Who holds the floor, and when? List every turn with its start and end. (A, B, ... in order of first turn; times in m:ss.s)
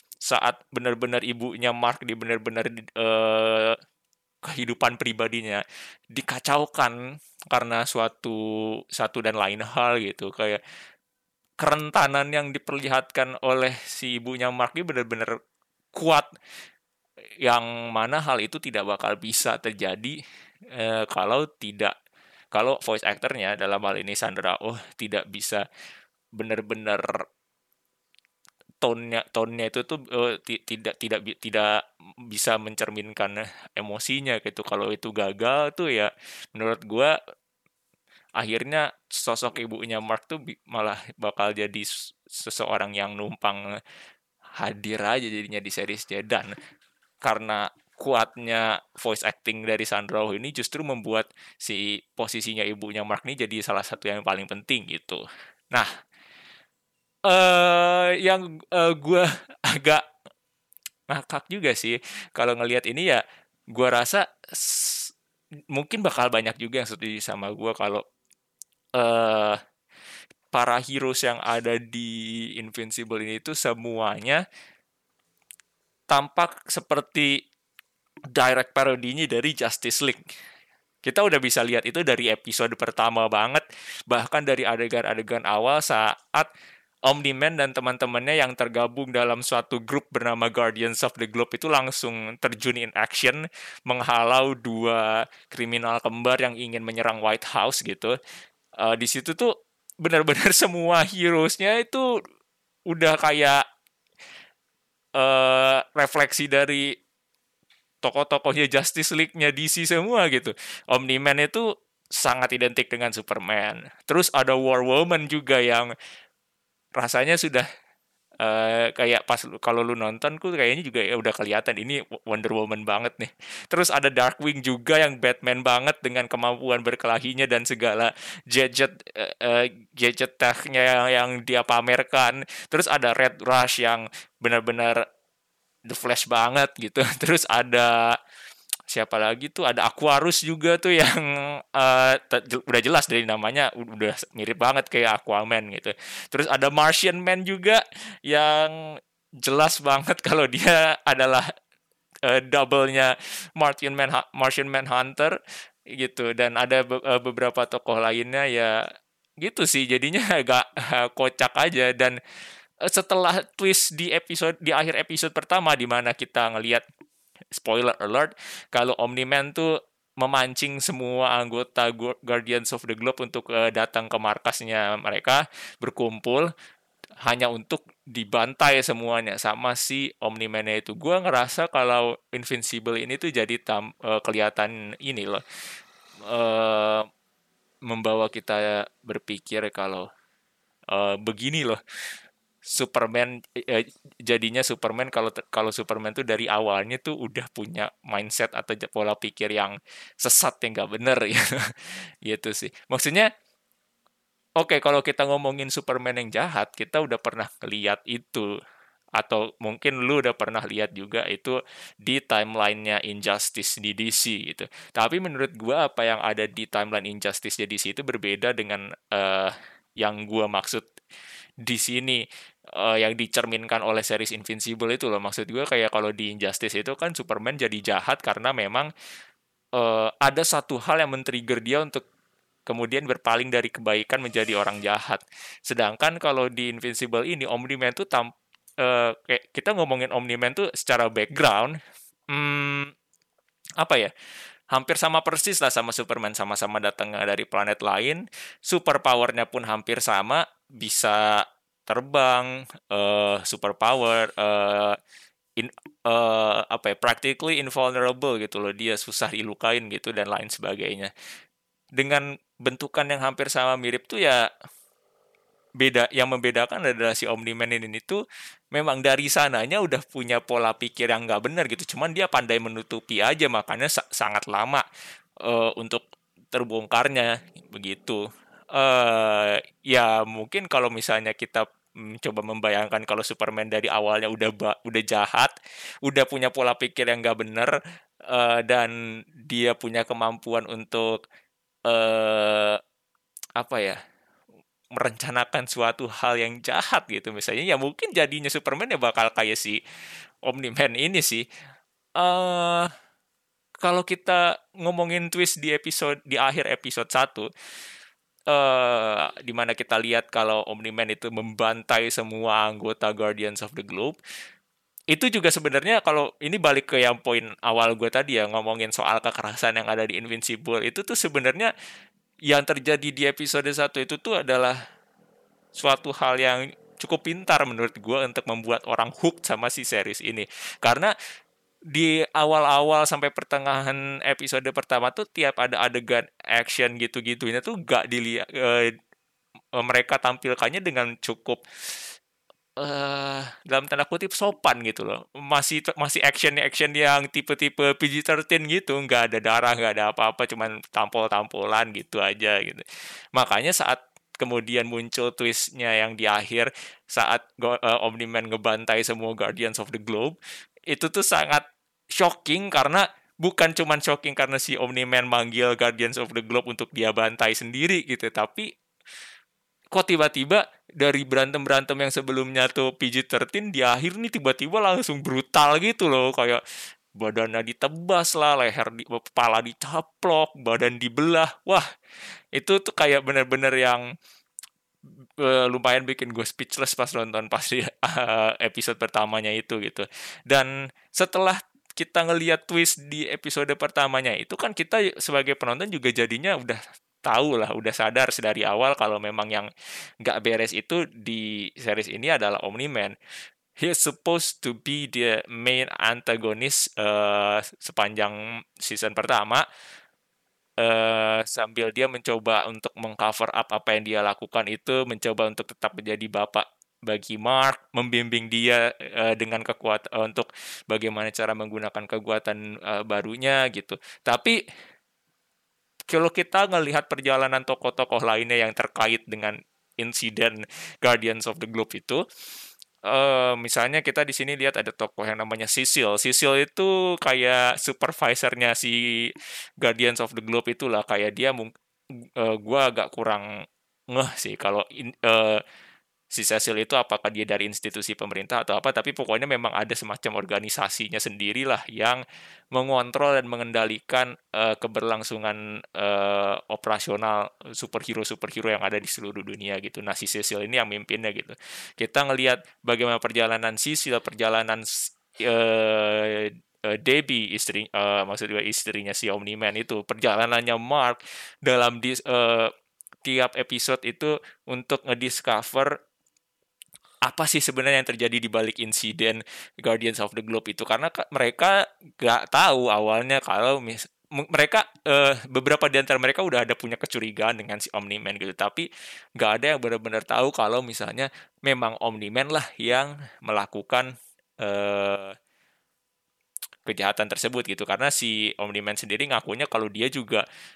0:00.3-0:03.8 A
0:04.4-0:07.0 A
0:07.5-0:08.4 A
0:08.9-0:10.6 A
0:11.6-0:15.3 A
0:15.9-0:16.3 A
0:17.4-0:20.2 A
0:20.7-0:21.9 A
0:22.5-0:25.6 A
0:26.4-0:27.2 A
0:28.8-0:31.7 A
0:32.3-0:37.1 A
0:38.4-0:43.6 A
0:44.6-0:46.6 A
0:47.2-0:55.9 A
0:57.2-1:00.0 A
1:01.1-1:03.2 A
1:03.7-1:05.1 A
1:05.7-1:08.0 A
1:09.0-1:09.6 A
1:10.5-1:14.4 A
1:16.1-1:17.4 A
1:18.3-1:20.2 A
1:21.0-1:26.5 A
1:27.1-1:38.2 A
1:38.8-1:42.0 A
1:42.9-1:43.6 A
1:45.2-1:46.9 A
1:48.0-1:51.6 A
1:52.2-1:55.9 A
1:57.0-1:57.6 A
1:58.4-2:15.0 A
2:15.9-2:18.2 A
2:18.9-2:28.8 A
2:29.4-2:31.5 A
2:32.2-2:35.4 A
2:36.0-2:38.8 A
2:39.4-2:42.2 A
2:42.8-2:46.8 A
2:47.5-2:56.5 A
2:57.2-3:05.4 A
3:06.3-3:07.1 A
3:07.9-3:10.1 A
3:10.9-3:11.8 A
3:12.6-3:23.3 A
3:24.6-3:28.5 A
3:29.2-3:40.9 A
3:41.6-3:42.2 A
3:42.7-3:48.9 A
3:49.8-3:52.0 A
3:52.7-4:01.8 A
4:02.3-4:02.9 A
4:03.8-4:04.1 A
4:04.7-4:15.0 A
4:15.6-4:21.1 A
4:22.0-4:24.4 A
4:25.8-4:28.2 A
4:28.7-4:34.8 A
4:35.4-4:38.2 A
4:38.7-4:45.5 A
4:46.0-4:47.7 A
4:48.3-4:48.9 A
4:49.5-4:51.2 A
4:51.9-4:52.8 A
4:53.6-4:54.0 A
4:55.0-4:59.8 A
5:00.4-5:01.4 A
5:02.2-5:02.9 A
5:03.8-5:07.5 A
5:08.5-5:14.2 A
5:15.1-5:21.7 A
5:22.5-5:24.8 A
5:25.8-5:31.1 A
5:31.9-5:38.9 A
5:39.8-5:41.6 A
5:42.8-6:00.4 A
6:00.9-6:08.7 A
6:09.9-6:16.6 A
6:17.2-6:21.8 A
6:22.5-6:24.0 A
6:25.4-6:39.7 A
6:40.2-6:43.1 A
6:43.8-6:49.6 A
6:50.8-7:04.6 A
7:06.1-7:12.2 A
7:13.1-7:21.7 A
7:22.4-7:23.4 A
7:24.1-7:25.6 A
7:26.3-7:32.2 A
7:32.7-7:52.7 A
7:53.2-7:56.0 A
7:57.2-8:14.1 A
8:14.6-8:15.3 A
8:16.8-8:20.4 A